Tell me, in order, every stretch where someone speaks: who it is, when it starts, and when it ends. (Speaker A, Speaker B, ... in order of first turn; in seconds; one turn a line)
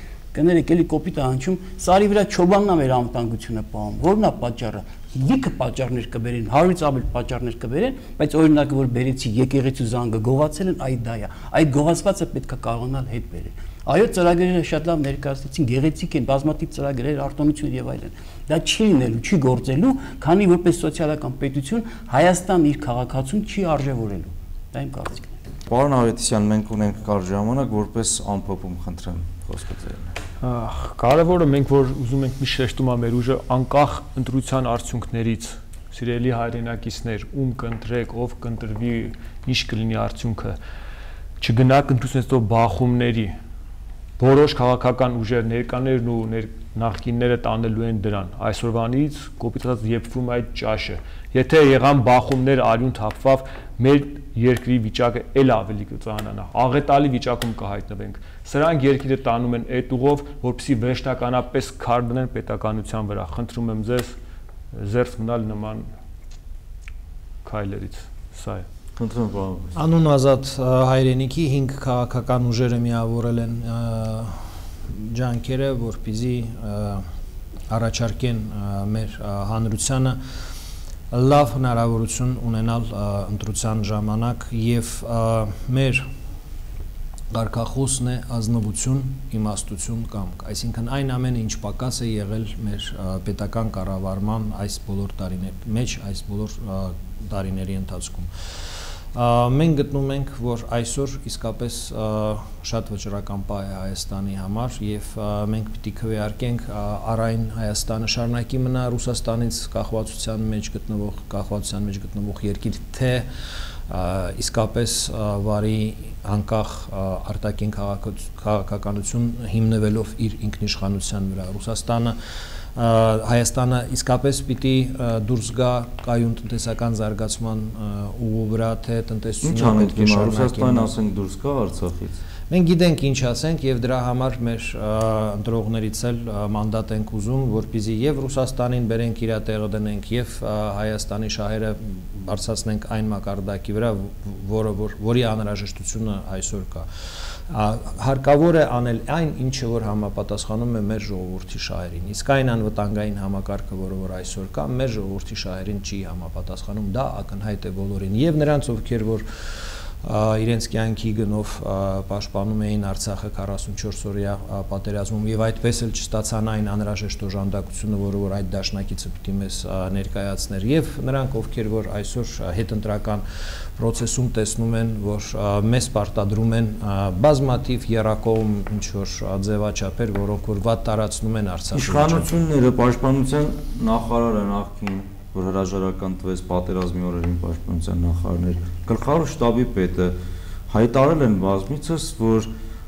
Speaker A: 0.3-25.4
Speaker B: 25.7-30.1
Speaker C: 30.4-40.6
Speaker C: 41.4-43.4
Speaker C: 44.2-64.1
Speaker C: 64.7-65.9
Speaker C: 67.4-68.7
Speaker B: 69.0-69.8
Speaker D: 69.8-77.1
Speaker D: 77.7-80.2
Speaker D: 81.1-86.1
Speaker D: 87.3-98.3
Speaker D: 99.1-113.3
Speaker D: 113.9-122.2
Speaker D: 122.8-130.9
Speaker B: 129.4-132.2
Speaker D: 132.5-146.9
Speaker D: 147.5-159.3
Speaker D: 160.0-173.2
Speaker D: 173.8-182.3
Speaker B: 181.7-190.2
Speaker B: 190.7-192.5